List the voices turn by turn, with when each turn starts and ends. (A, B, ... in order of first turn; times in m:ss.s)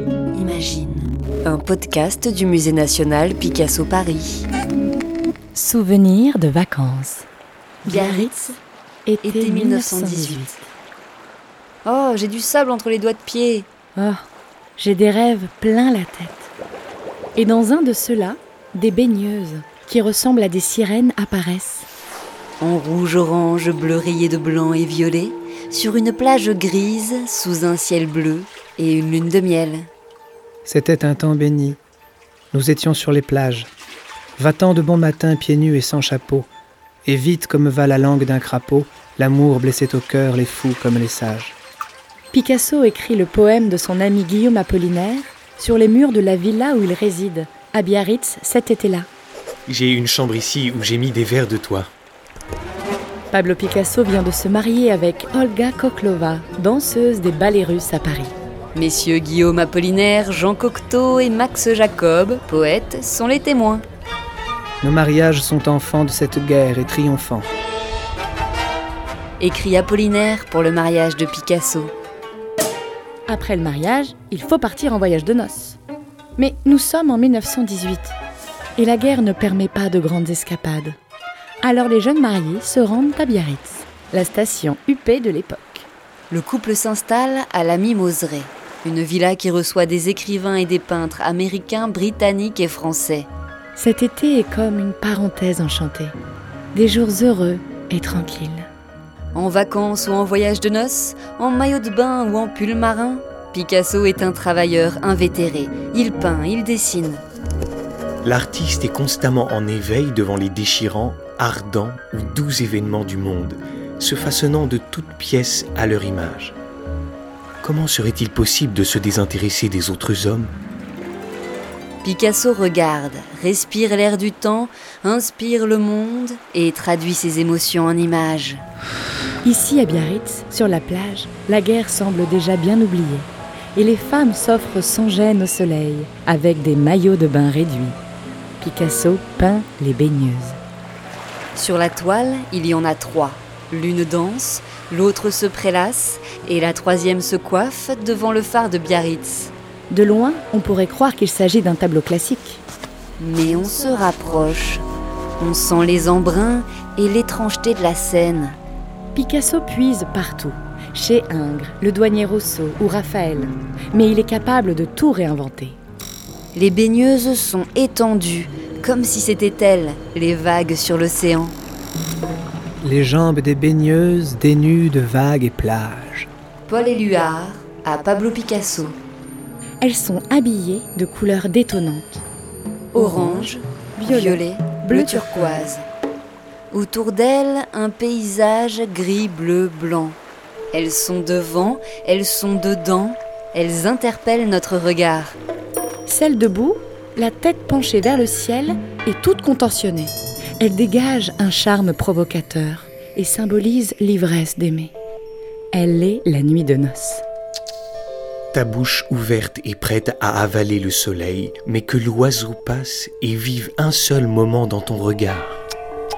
0:00.3-0:04.4 A
0:05.5-0:07.3 B
0:07.8-0:08.3 B
0:07.8-0:08.6 A
0:09.0-0:10.7 B
0:09.2-0:10.6 A
0:11.8-0:13.7 A
0:14.0-0:14.3 B
0:14.8-0:16.5 B
0:17.4-0:21.9 B
0:22.6-0:29.9 A
0:30.6-0:31.8 C
0:32.5-0:33.7 C
0:34.4-0:36.5 C
0:37.0-0:41.6 C
0:42.3-0:49.1 B
0:49.7-0:51.9 D
0:53.3-0:58.3 B
0:58.7-1:03.8 A
1:04.8-1:07.5 C
1:09.4-1:11.9 A
1:13.3-1:15.8 B
1:16.4-1:18.1 B
1:18.8-1:21.0 B
1:21.6-1:25.9 B
1:26.3-1:33.3 A
1:33.7-1:36.2 B
1:36.7-1:38.7 B
1:39.3-1:47.2 A
1:48.2-1:56.5 D
1:57.6-2:00.5 D
2:02.0-2:08.6 A
2:09.4-2:18.0 B
2:18.6-2:20.6 B
2:21.6-2:29.5 A
2:29.9-2:32.6 B
2:33.2-2:34.8 A
2:35.4-2:38.6 A
2:39.1-2:45.8 B
2:46.5-2:51.6 A
2:52.8-2:56.3 C
2:56.7-2:59.0 A
2:59.8-3:02.2 B
3:02.9-3:05.8 A
3:02.9-3:05.7 B
3:06.7-3:10.2 A
3:10.7-3:15.4 A
3:16.0-3:24.9 B
3:25.7-3:27.2 B
3:28.5-3:35.6 D